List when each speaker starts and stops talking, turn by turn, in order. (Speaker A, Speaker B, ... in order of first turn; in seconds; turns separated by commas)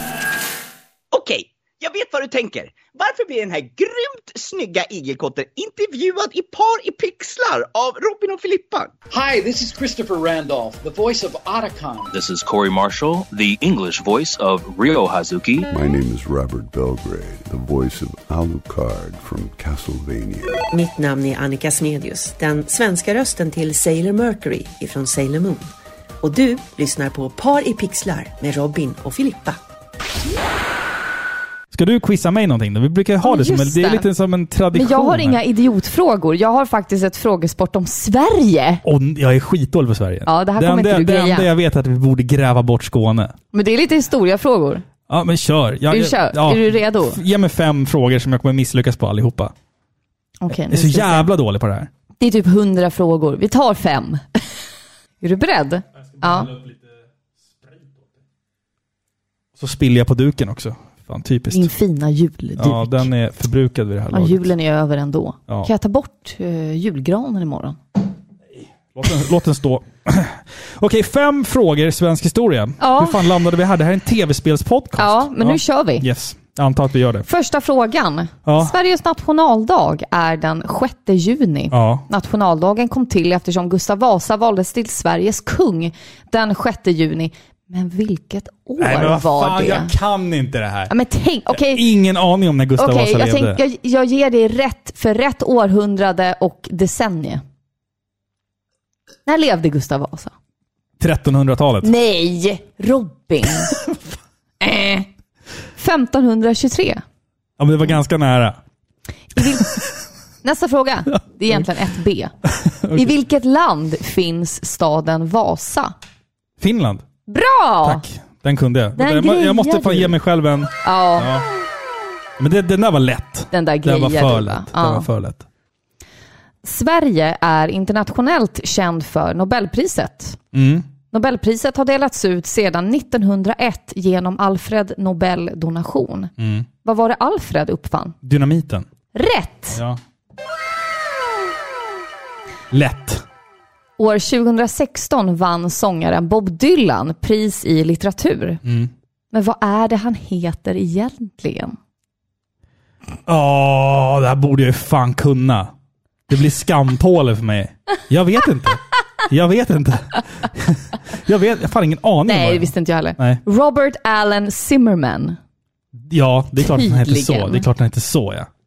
Speaker A: 1.1-8.9, Speaker B: 9.1-12.2, Speaker C: 12.1-15.7, Speaker D: 15.7-20.6, Speaker E: 20.7-29.6, Speaker F: 31.7-35.4, Speaker G: 33.2-34.1, Speaker G: 34.7-38.8, Speaker F: 38.8-43.4, Speaker G: 40.3-41.5, Speaker G: 43.5-44.8, Speaker F: 45.1-49.5, Speaker G: 45.9-47.2, Speaker G: 50.4-51.3, Speaker F: 50.5-51.9, Speaker G: 52.2-54.4, Speaker G: 55.2-56.5, Speaker F: 56.2-56.9, Speaker F: 57.6-58.0, Speaker F: 59.6-61.7, Speaker G: 61.5-63.1, Speaker F: 62.6-64.5, Speaker G: 64.1-67.8, Speaker F: 68.6-77.3, Speaker G: 72.8-73.3, Speaker G: 75.0-76.1, Speaker G: 77.3-89.9, Speaker F: 78.5-78.8, Speaker F: 81.7-82.1, Speaker F: 88.8-90.9, Speaker G: 90.9-91.8, Speaker F: 91.5-93.6, Speaker G: 92.8-97.4, Speaker G: 99.3-100.3, Speaker F: 101.0-101.9, Speaker G: 101.8-103.8, Speaker G: 104.6-105.1, Speaker G: 105.8-107.0, Speaker F: 107.6-108.6, Speaker G: 109.3-109.8, Speaker G: 110.4-112.3, Speaker F: 112.6-113.1, Speaker G: 112.9-115.9, Speaker F: 116.6-117.0, Speaker G: 117.3-118.0, Speaker F: 117.8-121.5, Speaker G: 119.0-120.2, Speaker G: 120.8-121.3, Speaker F: 122.4-125.5, Speaker G: 123.5-125.1, Speaker G: 126.6-130.4, Speaker F: 130.5-130.9, Speaker G: 131.1-136.3, Speaker F: 136.4-136.7, Speaker G: 136.8-138.2, Speaker F: 138.2-138.9, Speaker G: 139.1-139.8, Speaker F: 139.7-140.0, Speaker F: 142.7-143.2, Speaker G: 144.0-148.6, Speaker F: 148.6-148.9, Speaker G: 149.3-151.8, Speaker F: 153.3-155.7, Speaker F: 156.3-163.4, Speaker G: 162.3-165.4, Speaker F: 166.0-168.5, Speaker G: 166.6-167.7